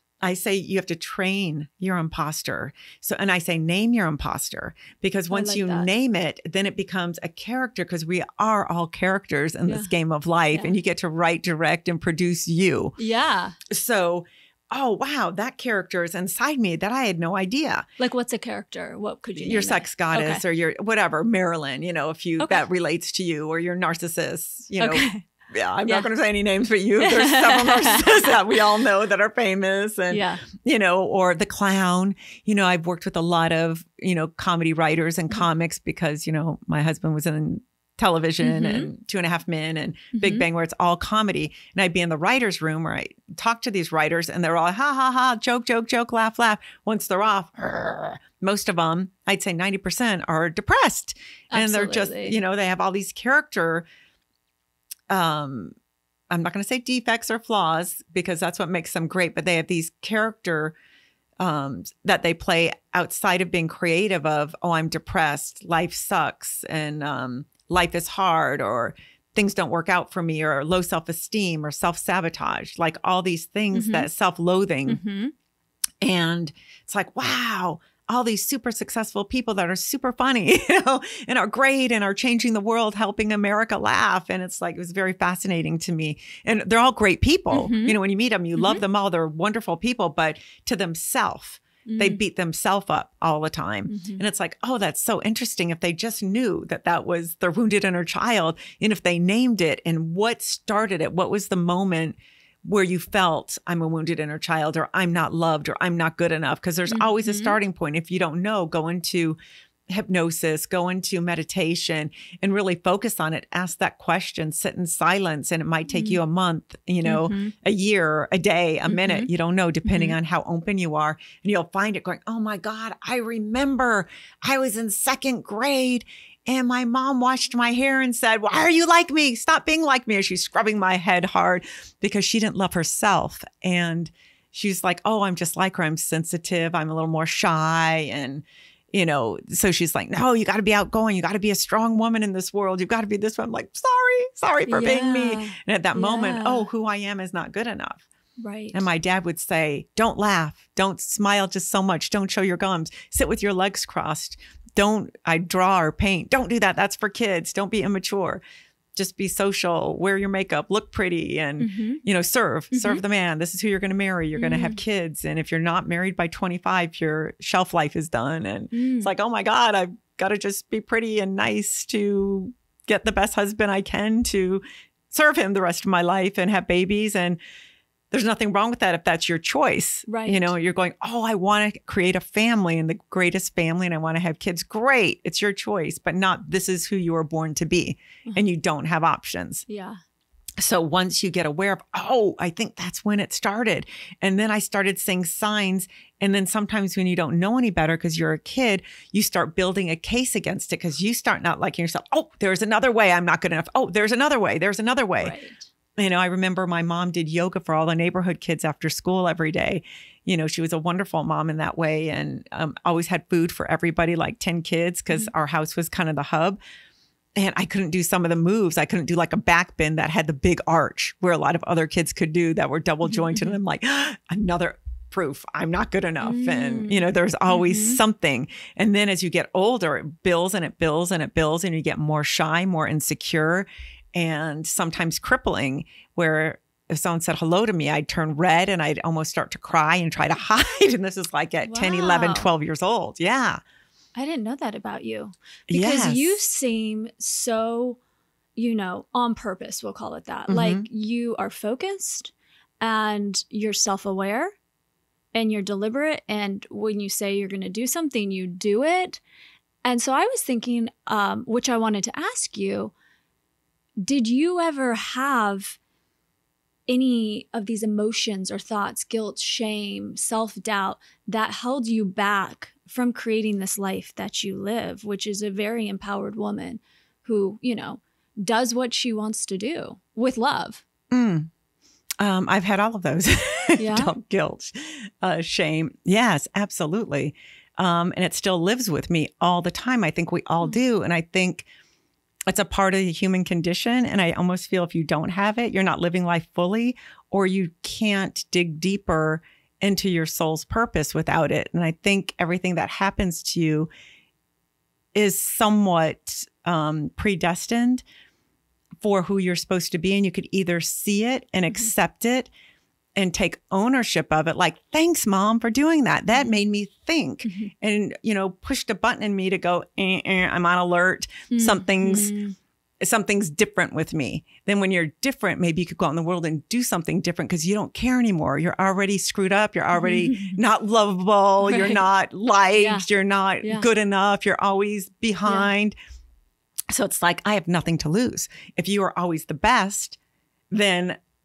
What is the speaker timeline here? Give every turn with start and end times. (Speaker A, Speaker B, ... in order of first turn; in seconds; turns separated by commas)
Speaker A: 0.2-13.0, Speaker B: 5.3-5.9, Speaker B: 13.0-13.6, Speaker A: 13.7-17.9, Speaker B: 18.0-20.4, Speaker A: 19.4-53.9, Speaker B: 22.4-22.6, Speaker B: 24.8-25.2, Speaker B: 27.0-28.6, Speaker B: 30.1-30.4, Speaker B: 38.4-38.9, Speaker B: 40.1-40.5, Speaker B: 51.5-52.4, Speaker A: 55.1-55.7, Speaker A: 56.3-60.8, Speaker A: 61.4-75.0, Speaker B: 73.7-74.1, Speaker B: 74.9-75.3, Speaker A: 76.0-109.4, Speaker B: 87.5-88.0, Speaker B: 88.6-88.8, Speaker B: 91.9-92.2, Speaker B: 93.9-94.2, Speaker B: 106.9-107.6, Speaker A: 109.9-148.1, Speaker B: 115.9-116.2, Speaker B: 117.0-117.5, Speaker B: 118.9-119.3, Speaker B: 119.8-120.2, Speaker B: 144.7-146.7, Speaker B: 148.4-148.8, Speaker A: 148.7-158.4, Speaker A: 159.0-177.4, Speaker B: 161.6-162.0, Speaker B: 162.7-163.0, Speaker B: 164.3-164.8, Speaker B: 168.7-169.1, Speaker A: 178.1-189.7, Speaker B: 180.1-180.5, Speaker B: 189.7-190.0, Speaker A: 190.6-205.4, Speaker B: 205.2-205.7, Speaker A: 206.0-216.6, Speaker A: 217.4-243.6, Speaker B: 223.1-223.5, Speaker B: 226.2-228.0, Speaker B: 241.6-242.5, Speaker B: 244.2-248.0, Speaker A: 245.7-246.4, Speaker B: 248.6-254.5, Speaker A: 250.5-250.9, Speaker B: 255.3-259.2, Speaker B: 259.8-262.9, Speaker B: 264.0-265.8, Speaker B: 266.9-280.8, Speaker A: 281.1-281.5, Speaker A: 282.2-291.7, Speaker B: 283.8-284.1, Speaker A: 292.5-303.9, Speaker A: 305.1-308.0, Speaker A: 309.0-312.5, Speaker A: 313.2-322.4, Speaker B: 317.4-317.7, Speaker B: 321.5-322.6, Speaker A: 323.0-336.0, Speaker B: 329.9-330.6, Speaker B: 331.6-332.0, Speaker B: 332.8-333.1, Speaker B: 333.6-333.9, Speaker B: 335.4-335.7, Speaker A: 336.9-340.2, Speaker A: 340.7-341.2